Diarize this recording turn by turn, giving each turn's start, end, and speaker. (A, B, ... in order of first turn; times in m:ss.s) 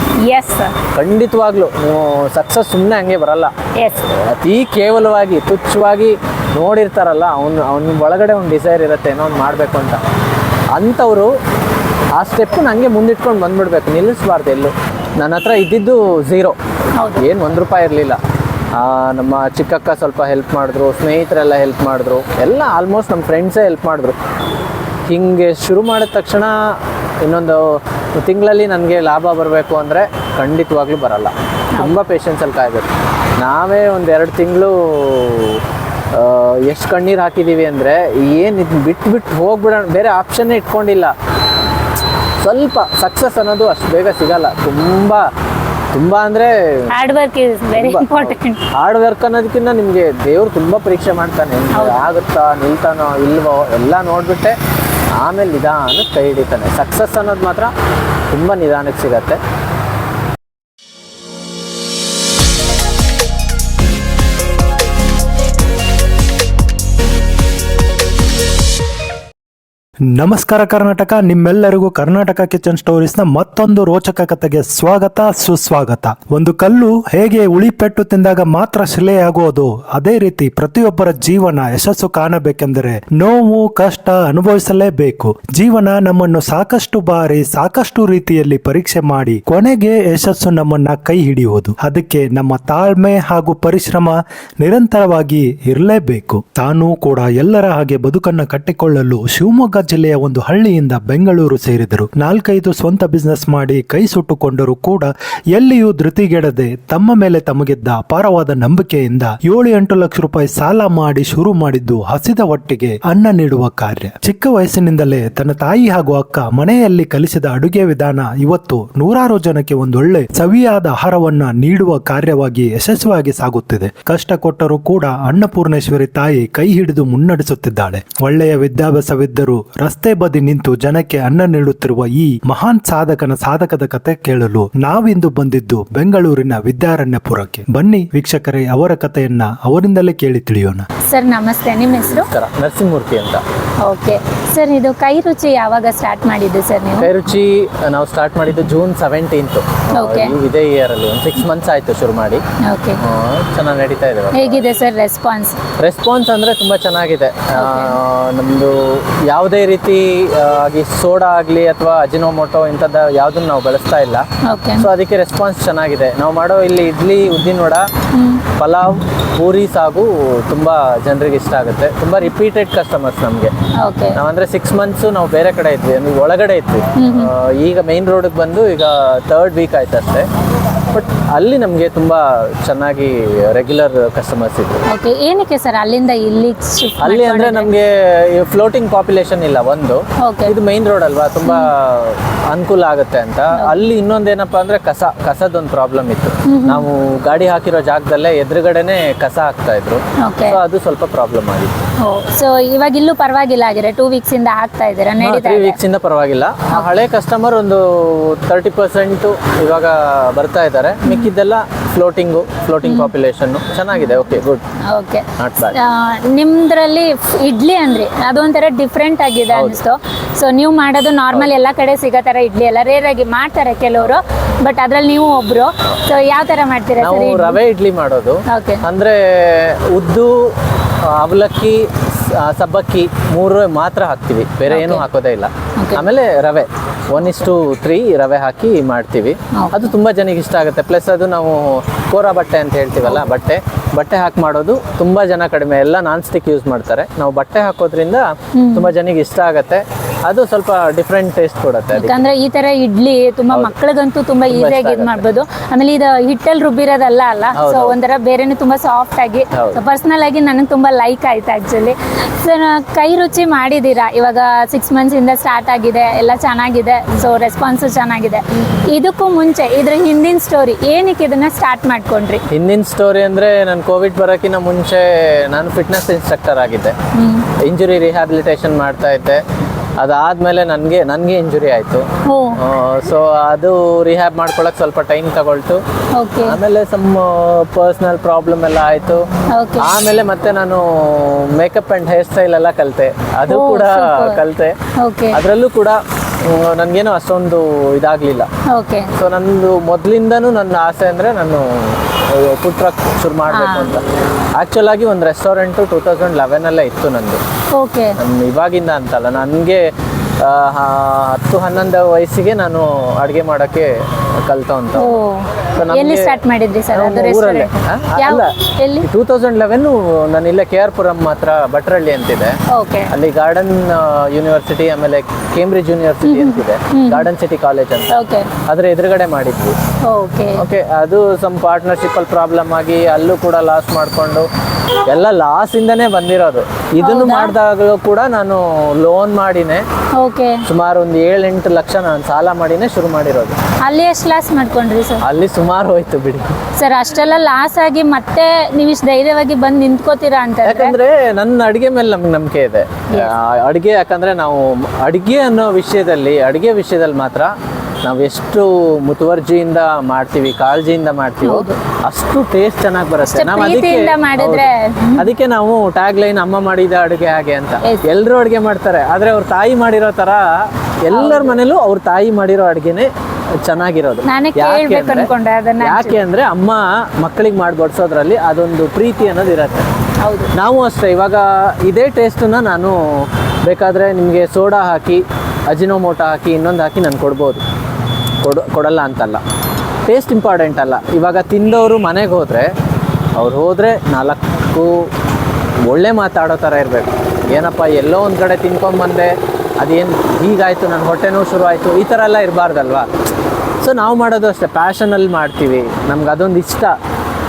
0:00.2-0:00.7 A
0:00.9-0:03.5 B
0:03.8-0:04.0 A
0:04.1-0:10.0 B
0:10.7-0:11.3 B
0:12.2-0:16.6 B
0:17.0-0:17.2 A
0:17.2-0:18.2 B
0:18.7-0:24.2 B
0:25.1-0:32.9 B
0:33.4-0:35.6 B
0:36.1-0:41.1 B
0:42.4-0:45.3 B
0:45.9-0:46.9 B
0:46.9-0:48.6 A
0:47.8-0:54.6 B
0:51.7-0:52.0 A
0:55.2-0:57.7 B
0:58.3-0:59.4 B
1:10.1-2:20.9 C
2:21.0-2:22.3 A
2:22.1-2:23.4 B
2:23.8-2:27.1 A
2:27.0-2:32.4 B
2:30.0-2:30.4 A
2:32.6-2:33.0 A
2:33.0-2:34.6 B
2:34.3-2:35.6 A
2:35.8-2:47.9 B
2:37.5-2:38.0 A
2:44.4-2:44.8 A
2:48.1-2:48.4 A
2:48.5-2:53.5 B
2:53.8-2:54.2 A
2:54.1-3:00.3 B
2:57.0-2:57.3 A
3:00.9-3:04.8 B
3:04.9-3:07.7 A
3:07.0-3:21.8 B
3:10.2-3:10.5 A
3:11.4-3:11.7 A
3:16.4-3:16.8 A
3:20.2-3:20.6 A
3:22.0-3:25.8 A
3:25.2-3:34.6 B
3:32.8-3:33.1 A
3:34.9-3:47.6 A
3:35.4-3:35.8 B
3:39.5-3:39.8 B
3:47.0-4:12.2 B
3:48.5-3:48.8 A
3:54.7-3:55.0 A
3:55.8-3:56.1 A
3:59.5-3:59.9 A
4:08.5-4:08.9 A
4:11.9-4:32.4 A
4:14.5-4:15.2 B
4:17.5-4:17.9 B
4:19.5-4:19.8 B
4:32.5-4:37.0 B
4:37.1-4:37.4 A
4:37.6-4:39.4 B
4:40.0-4:45.8 B
4:42.2-4:42.6 A
4:46.1-4:46.6 A
4:46.4-4:49.2 B
4:49.5-4:49.9 A
4:49.8-4:54.8 B
4:53.5-4:54.4 A
4:55.0-4:55.4 A
4:55.3-4:58.5 B
4:58.7-4:59.1 A
4:59.1-5:04.0 B
5:03.5-5:03.9 A
5:04.6-5:07.4 B
5:07.7-5:08.2 A
5:08.2-5:15.1 B
5:15.0-5:19.1 A
5:15.8-5:16.4 B
5:16.9-5:22.6 B
5:22.7-5:23.1 A
5:23.1-5:29.8 B
5:26.2-5:27.3 A
5:28.1-5:28.5 A
5:30.0-5:30.6 A
5:30.6-5:34.5 B
5:35.1-5:39.8 B
5:37.0-5:37.5 A
5:40.1-5:40.6 A
5:40.6-5:43.6 B
5:43.8-5:45.2 A
5:45.2-5:46.6 B
5:46.8-5:50.9 A
5:50.6-6:13.1 B
6:01.4-6:01.8 A
6:03.2-6:05.3 A
6:11.1-6:11.6 A
6:13.6-6:15.3 B
6:14.3-6:16.2 A
6:15.8-6:19.9 B
6:20.2-6:20.5 A
6:20.5-6:27.6 B
6:28.4-6:29.4 B
6:30.1-6:32.7 B
6:33.4-6:35.1 B
6:35.8-6:43.1 B
6:43.8-6:46.9 B